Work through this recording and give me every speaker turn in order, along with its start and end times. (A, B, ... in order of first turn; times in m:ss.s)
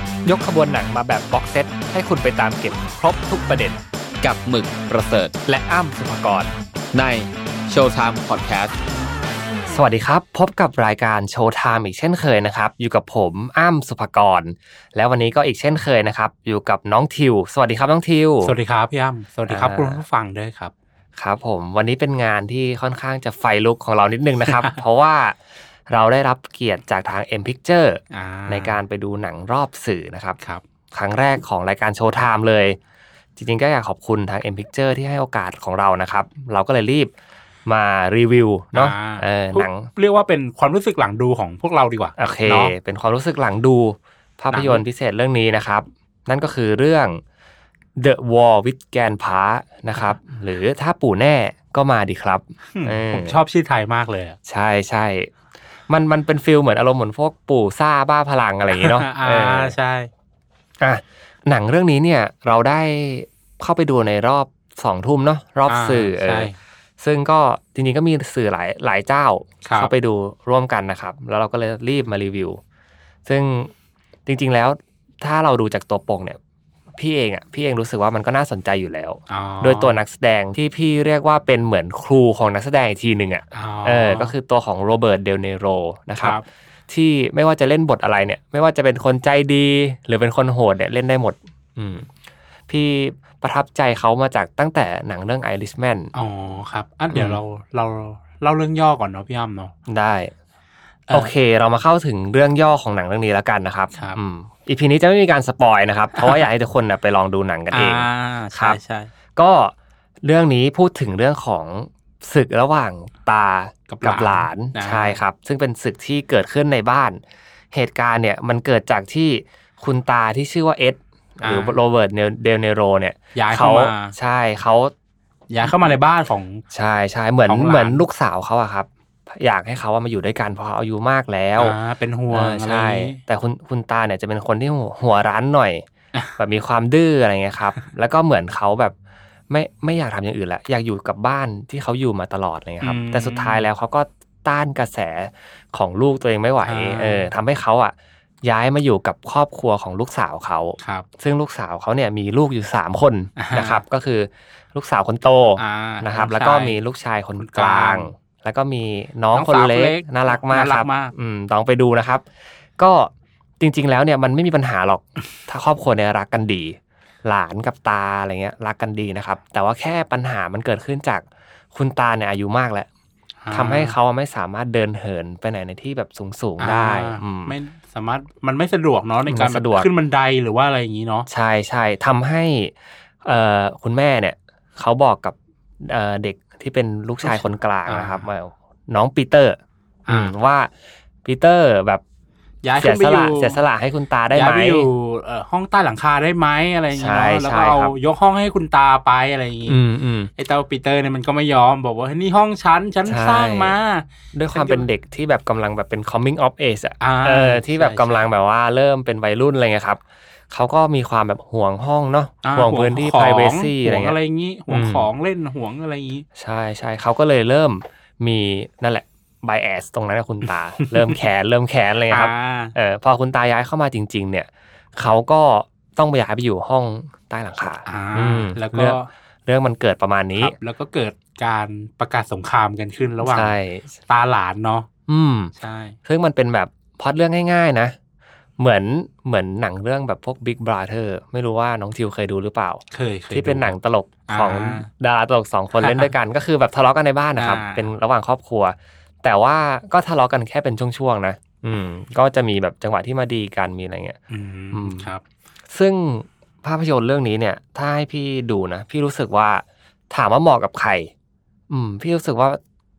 0:00.2-0:03.8 A
0:04.2-0:05.3 B
0:05.4-0:06.5 A
0:06.9-0:08.7 B
0:09.7-0:18.6 A
0:18.4-0:20.7 C
0:19.5-0:20.0 A
0:21.2-0:30.4 A
0:28.1-0:28.8 C
0:30.9-0:32.8 A
0:33.4-0:37.1 A
0:37.6-0:39.9 A
0:38.7-0:42.7 C
0:42.2-0:47.2 A
0:44.5-0:44.8 C
0:48.0-0:53.4 A
0:52.7-0:54.4 C
0:54.4-0:55.3 A
0:55.9-0:59.7 A
0:58.7-1:00.1 C
1:00.8-1:12.6 A
1:05.7-1:06.6 C
1:09.6-1:09.9 C
1:13.2-1:13.7 A
1:14.2-1:16.4 A
1:17.0-1:32.1 A
1:19.3-1:20.0 C
1:23.5-1:24.3 C
1:26.2-1:26.4 C
1:32.7-1:36.1 A
1:36.1-1:39.7 C
1:37.1-1:37.4 A
1:39.9-1:40.3 A
1:41.1-1:41.3 C
1:41.1-1:48.8 A
1:43.9-1:44.2 C
1:47.7-1:49.1 C
1:49.4-1:57.2 A
1:53.9-1:55.2 C
1:57.7-2:04.9 A
2:01.4-2:01.8 C
2:03.3-2:04.1 C
2:05.5-2:06.6 C
2:05.6-2:05.9 A
2:06.7-2:11.8 A
2:07.4-2:08.0 C
2:11.6-2:13.2 C
2:12.3-2:15.8 A
2:16.4-2:18.9 A
2:19.5-2:42.2 A
2:22.8-2:23.7 C
2:26.6-2:27.3 C
2:30.8-2:31.0 C
2:33.4-2:33.8 C
2:35.6-2:36.8 C
2:37.4-2:38.1 C
2:39.3-2:41.1 C
2:42.8-2:52.9 A
2:53.4-2:54.0 C
2:53.5-2:57.6 A
2:56.6-3:01.3 C
2:59.2-2:59.9 A
3:01.3-3:09.6 A
3:07.2-3:08.2 C
3:10.0-3:10.3 C
3:10.1-3:10.7 A
3:11.2-3:12.0 A
3:12.6-3:13.6 C
3:12.8-3:14.9 A
3:14.3-3:19.8 C
3:16.9-3:17.9 A
3:19.7-3:20.3 A
3:20.4-3:24.9 C
3:23.0-3:23.8 A
3:24.3-3:34.2 A
3:27.0-3:28.2 C
3:32.4-3:36.2 C
3:34.7-3:35.1 A
3:36.4-3:50.6 A
3:40.8-3:41.2 C
3:42.1-3:42.7 C
3:47.8-3:49.1 C
3:50.4-3:54.9 C
3:53.2-3:53.9 A
3:55.1-3:55.5 A
3:55.6-3:56.0 C
3:56.0-3:57.9 A
3:58.6-4:14.2 A
4:02.9-4:04.9 C
4:05.8-4:06.1 C
4:07.4-4:07.9 C
4:14.3-4:15.2 C
4:14.7-4:15.1 A
4:15.7-4:21.1 A
4:21.7-4:22.6 A